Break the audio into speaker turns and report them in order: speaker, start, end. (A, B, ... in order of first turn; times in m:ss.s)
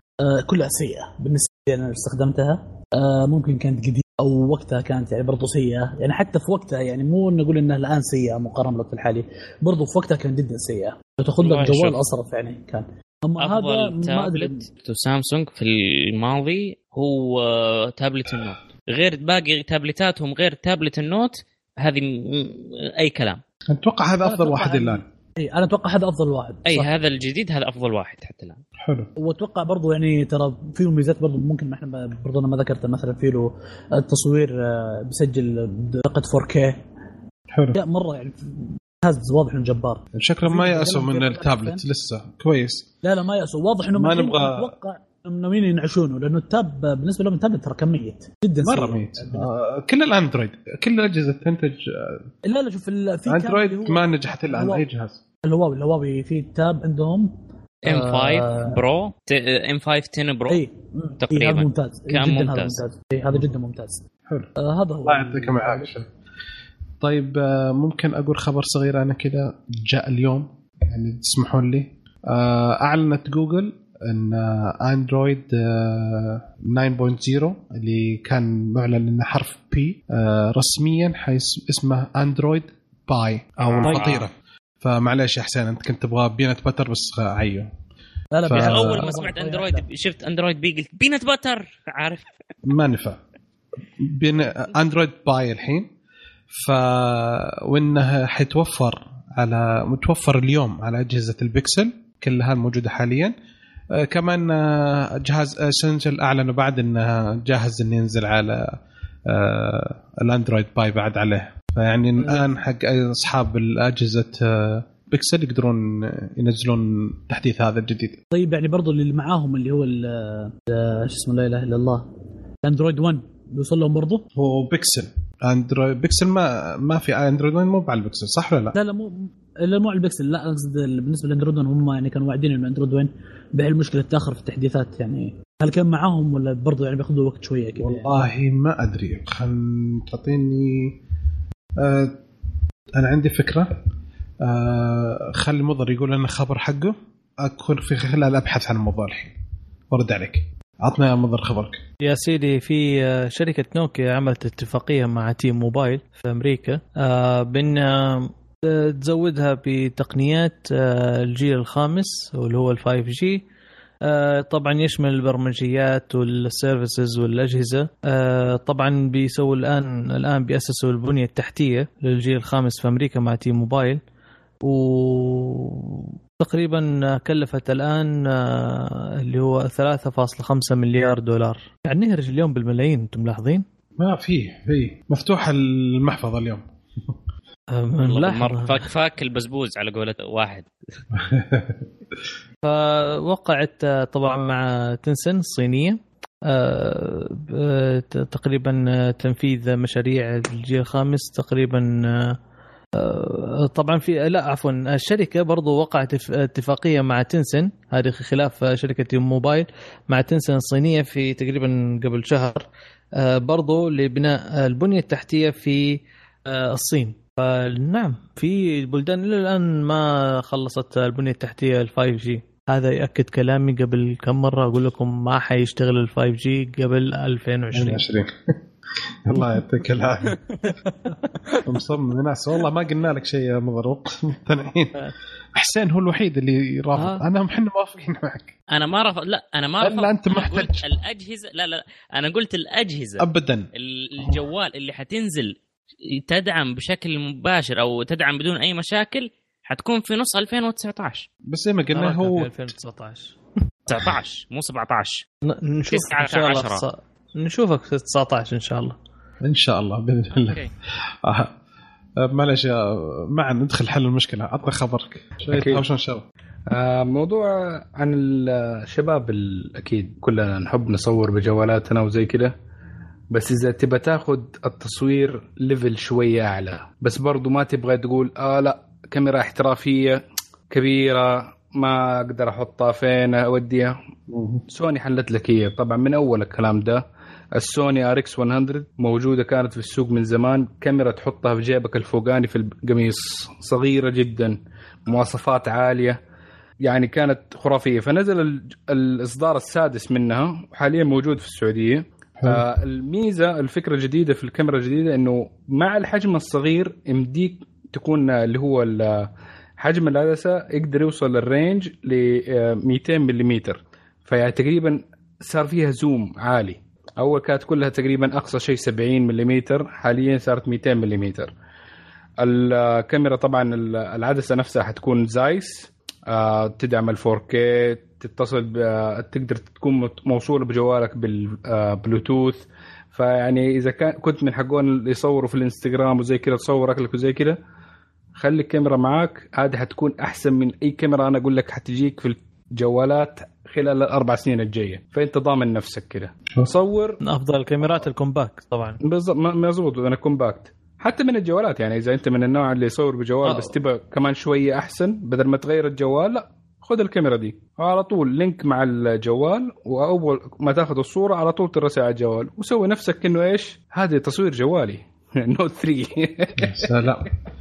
0:00.2-0:14.6 A
0:11.4-0:12.0 B
0:13.4-0:23.4 B
0:23.7-0:25.0 C
0:24.2-0:26.9 A
0:26.7-0:28.6 B
0:28.8-0:29.1 C
0:29.2-0:36.8 A
0:37.5-0:37.8 C
0:37.7-0:41.8 A
0:40.1-0:42.9 C
0:43.0-0:49.5 A
0:43.9-0:44.7 C
0:48.6-0:52.3 C
0:52.4-0:54.8 A
0:53.2-0:55.2 C
0:55.4-0:58.8 A
0:57.8-1:00.6 B
1:00.5-1:04.0 A
1:01.2-1:02.8 B
1:04.6-1:05.9 A
1:05.1-1:06.1 C
1:07.0-1:27.7 C
1:23.8-1:24.2 D
1:23.8-1:24.2 B
1:28.3-1:29.9 A
1:28.4-1:29.0 C
1:28.5-1:32.3 B
1:32.6-1:33.2 C
1:34.0-1:35.9 C
1:36.5-1:43.3 C
1:43.9-1:58.2 C
1:58.3-2:02.1 A
2:02.6-2:04.2 A
2:04.3-2:08.8 C
2:08.7-2:18.2 A
2:17.8-2:21.0 C
2:21.8-2:22.2 C
2:22.9-2:23.8 C
2:24.4-2:29.4 C
2:29.9-2:31.8 C
2:32.0-2:43.4 D
2:44.0-2:54.0 D
2:54.6-3:03.6 D
3:04.0-3:07.2 C
3:07.7-3:08.9 D
3:08.0-3:10.7 B
3:11.1-3:11.8 C
3:12.6-3:22.4 D
3:22.9-3:48.0 D
3:47.7-3:50.4 C
3:51.6-3:58.5 C
3:57.0-3:57.2 D
3:58.7-4:05.5 B
3:59.8-4:00.9 C
4:03.2-4:03.7 C
4:06.1-4:11.3 B
4:11.5-4:12.7 C
4:11.9-4:13.4 D
4:13.9-4:15.2 B
4:15.4-4:19.0 D
4:15.9-4:16.8 B
4:19.4-4:20.7 C
4:20.4-4:20.7 B
4:21.2-4:21.5 C
4:22.2-4:26.2 C
4:25.5-4:25.8 E
4:26.7-4:32.5 E
4:33.3-4:43.9 E
4:44.3-4:44.6 C
4:44.7-4:47.0 E
4:47.6-4:56.2 E
4:56.8-5:09.3 E
5:02.4-5:02.6 C
5:09.8-5:21.5 E
5:22.4-5:37.6 E
5:38.4-5:47.2 E
5:47.2-5:49.0 D
5:49.0-6:06.8 E
5:53.4-5:53.7 D
6:06.6-6:07.3 C